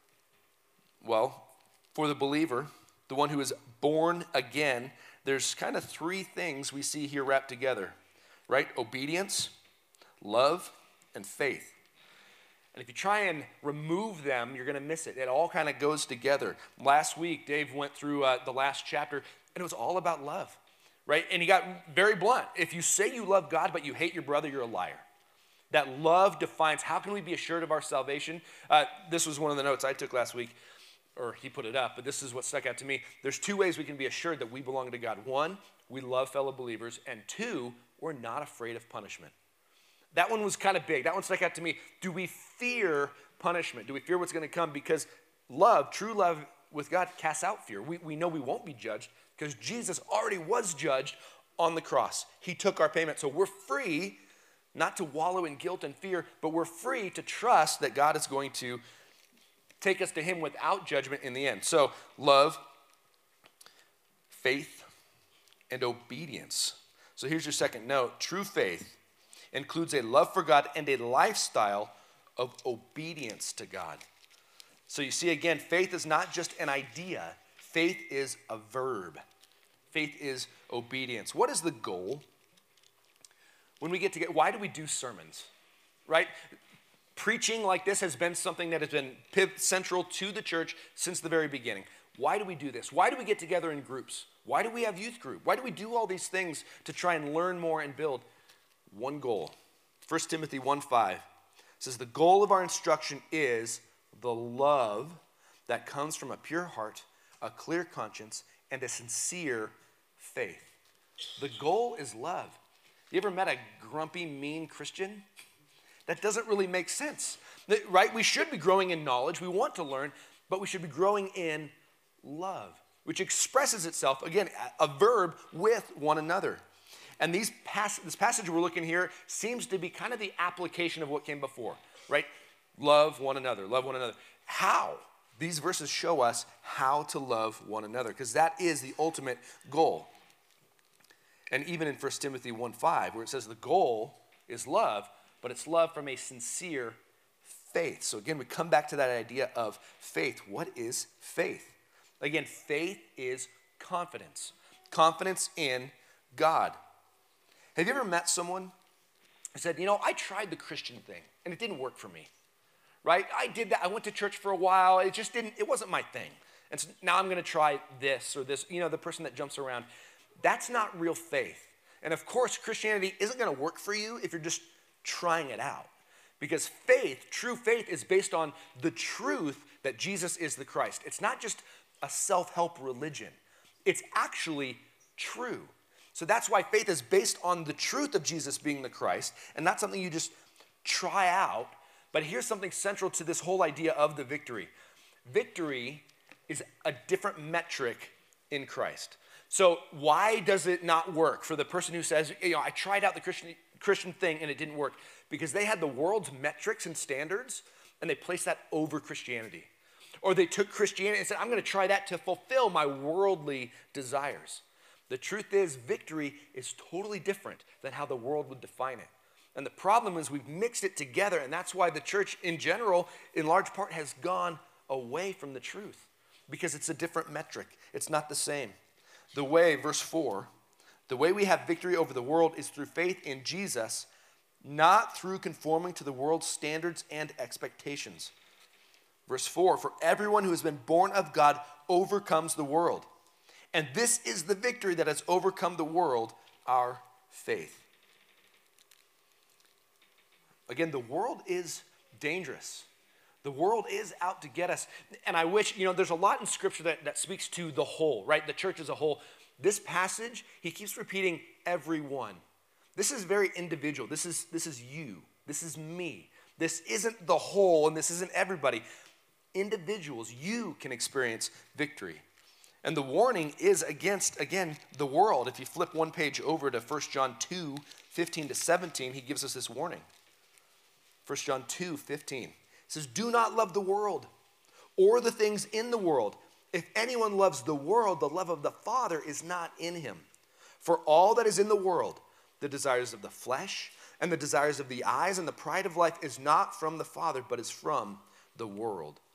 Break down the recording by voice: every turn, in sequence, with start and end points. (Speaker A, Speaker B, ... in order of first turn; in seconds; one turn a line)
Speaker A: 1.0-8.0
Speaker A: 8.5-9.5
Speaker A: 10.2-11.8
Speaker A: 12.7-25.1
Speaker A: 25.7-30.6
Speaker A: 31.2-39.3
Speaker A: 40.1-54.2
Speaker A: 54.7-58.8
Speaker A: 59.8-62.6
Speaker A: 64.3-64.9
Speaker A: 65.7-69.0
Speaker A: 69.5-74.0
Speaker A: 74.9-79.2
Speaker A: 79.9-82.2
Speaker A: 83.8-85.5
Speaker A: 86.1-86.3
Speaker A: 87.2-98.3
Speaker A: 98.9-99.5
Speaker A: 100.1-101.2
Speaker A: 101.8-110.8
Speaker A: 111.4-112.6
Speaker A: 113.1-115.3
Speaker A: 116.1-126.6
Speaker A: 127.2-140.1
Speaker A: 141.5-156.8
Speaker A: 157.8-158.7
Speaker A: 159.6-162.3
Speaker A: 163.0-169.9
Speaker A: 170.4-194.7
Speaker A: 195.3-209.7
Speaker A: 210.2-228.8
Speaker A: 229.3-230.5
Speaker A: 231.1-234.1
Speaker A: 234.6-238.3
Speaker A: 239.3-243.1
Speaker A: 243.7-247.9
Speaker A: 250.7-252.9
Speaker A: 253.4-262.4
Speaker A: 263.0-268.8
Speaker A: 269.5-272.2
Speaker A: 272.8-280.1
Speaker A: 281.3-284.3
Speaker A: 285.0-290.3
Speaker A: 290.8-299.2